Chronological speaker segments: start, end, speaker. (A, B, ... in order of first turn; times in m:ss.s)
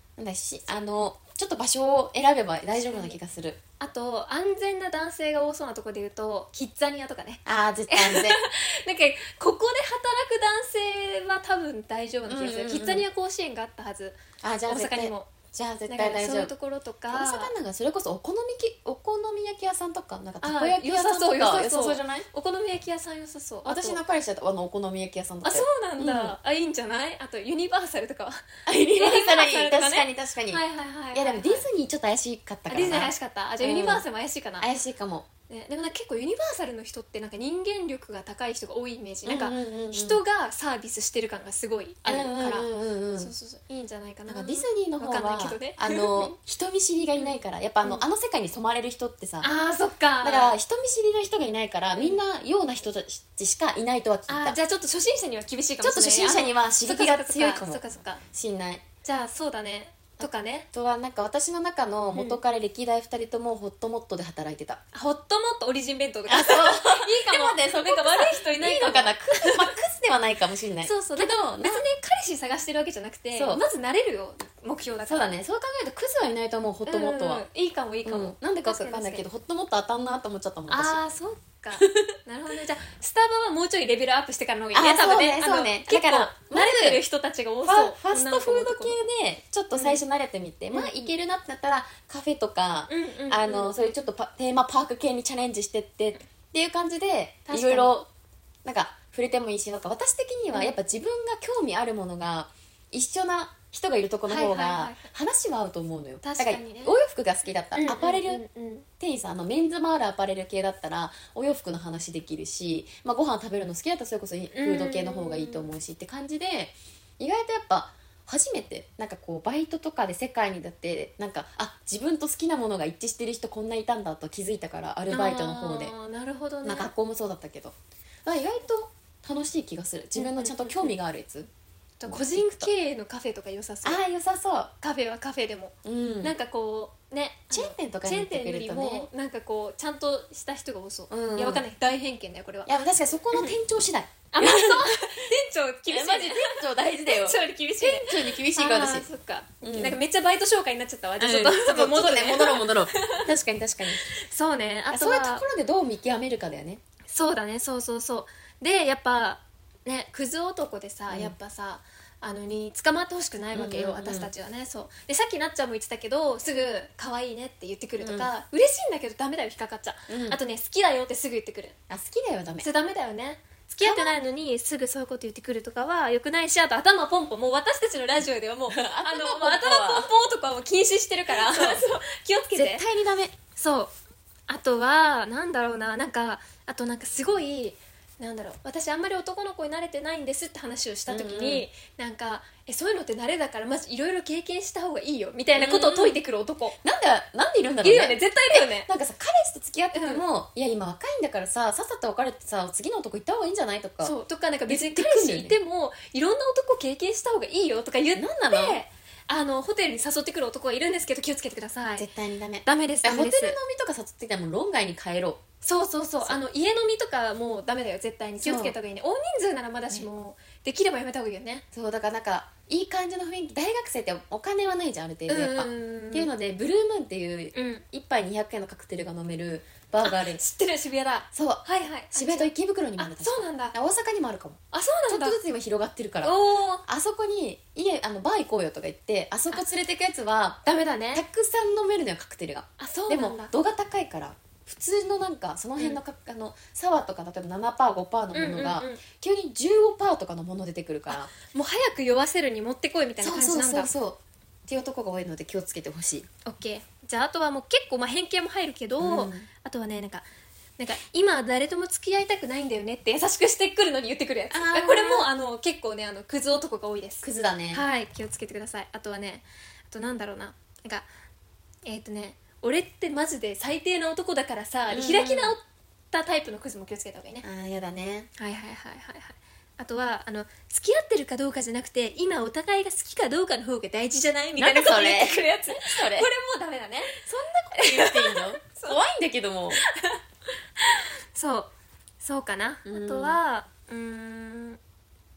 0:00.2-0:03.6 A
0:02.9-0:03.2 B
0:03.8-0:15.3 B
0:07.4-0:08.4 A
0:12.3-0:13.1 A
0:14.4-0:16.5 A
0:15.9-0:17.5 B
0:17.1-0:22.3 A
0:20.4-0:24.0 B
0:23.6-0:26.4 A
0:25.4-0:28.4 B
0:28.7-0:34.0 A
0:29.0-0:31.7 B
0:32.7-0:34.7 B
0:34.6-0:35.3 A
0:35.5-0:46.3 B
0:39.2-0:40.2 A
0:42.1-0:43.3 A
0:44.3-0:49.5 A
0:47.2-0:48.0 B
0:49.4-0:50.6 B
0:50.2-0:54.6 A
0:52.0-0:52.2 B
0:54.3-0:58.2 B
0:55.8-0:58.8 A
0:59.0-1:00.7 B
1:00.2-1:04.8 A
1:02.1-1:02.4 B
1:04.9-1:09.7 B
1:06.3-1:11.9 A
1:10.8-1:15.3 B
1:13.3-1:13.6 A
1:15.1-1:17.5 A
1:16.9-1:19.2 B
1:18.0-1:21.0 A
1:20.7-1:29.0 B
1:21.8-1:22.1 A
1:24.7-1:27.0 A
1:27.6-1:38.1 A
1:29.7-1:30.0 B
1:30.7-1:31.1 B
1:32.9-1:33.9 B
1:37.5-1:38.0 B
1:38.6-1:48.4 A
1:44.3-1:45.1 B
1:46.2-1:47.0 B
1:47.8-1:48.9 B
1:49.0-2:05.9 A
1:54.5-1:55.7 B
2:05.1-2:06.9 B
2:06.6-2:11.5 A
2:10.2-2:10.9 B
2:12.0-2:14.0 B
2:12.1-2:12.7 A
2:13.8-2:14.7 A
2:14.8-2:22.7 B
2:15.8-2:16.3 A
2:17.5-2:19.1 A
2:21.1-2:21.6 A
2:22.7-2:25.1 A
2:24.3-2:33.3 B
2:25.9-2:29.1 A
2:29.6-2:30.0 A
2:31.2-2:34.1 A
2:34.0-2:35.4 B
2:34.9-2:36.8 A
2:37.1-2:51.8 B
2:41.1-2:41.3 A
2:43.5-2:44.3 A
2:48.0-2:48.3 A
2:50.1-2:50.4 A
2:51.9-2:52.7 A
2:52.6-3:02.9 B
2:53.8-2:54.2 A
2:58.7-3:00.1 A
3:01.3-3:01.8 A
3:02.5-3:03.4 A
3:03.6-3:03.9 B
3:04.5-3:16.8 B
3:11.1-3:11.7 A
3:15.6-3:16.2 A
3:16.8-3:24.2 A
3:17.8-3:18.9 B
3:19.9-3:20.2 B
3:24.0-3:32.1 B
3:24.7-3:25.6 A
3:28.2-3:28.8 A
3:32.0-3:35.4 A
3:32.6-3:33.6 B
3:35.6-3:41.6 B
3:38.4-3:38.8 A
3:41.7-3:50.4 A
3:45.3-3:46.3 B
3:47.5-3:47.8 B
3:50.0-3:53.8 B
3:51.3-4:00.6 A
3:54.7-3:55.4 B
3:56.2-3:56.8 B
4:00.6-4:01.2 B
4:01.1-4:11.3 A
4:02.8-4:03.5 B
4:08.3-4:09.0 B
4:11.1-4:13.9 B
4:13.2-4:16.3 A
4:16.4-4:20.3 B
4:19.0-4:19.5 A
4:20.8-4:31.1 B
4:24.5-4:25.3 A
4:27.2-4:27.8 A
4:31.8-4:35.6 B
4:34.9-4:35.6 A
4:36.1-4:37.4 B
4:37.4-4:38.3 A
4:38.4-4:49.0 B
4:44.6-4:46.3 A
4:47.3-4:49.8 A
4:49.7-4:50.2 B
4:50.8-4:54.8 B
4:52.8-4:53.4 A